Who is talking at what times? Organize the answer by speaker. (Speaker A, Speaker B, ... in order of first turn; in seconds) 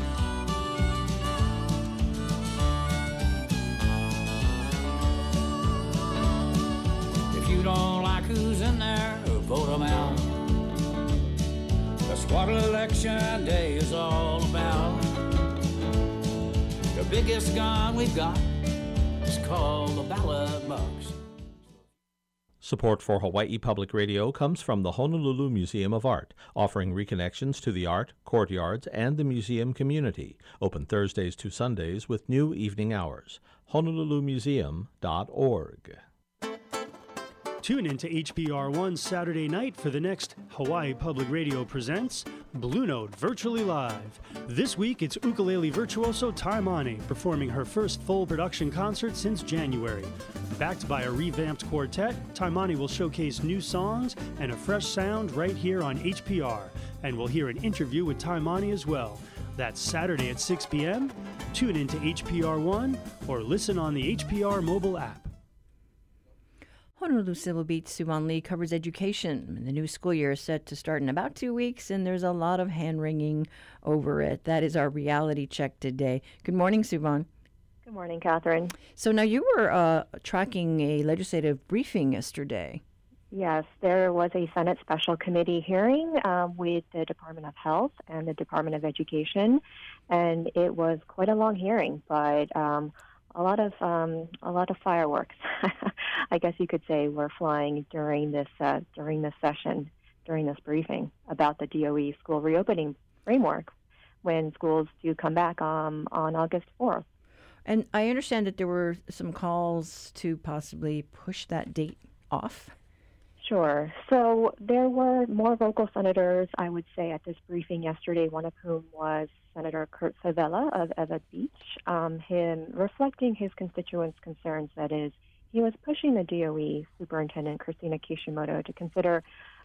Speaker A: 7.3-10.7, 12.1-15.1, 16.9-18.6, 19.2-21.1
Speaker B: 22.6-36.0
Speaker C: 37.6-65.3
Speaker D: 67.0-77.3, 78.9-82.8, 107.7-112.7
Speaker E: 77.8-78.7, 83.3-103.7, 104.2-107.0, 113.4-129.2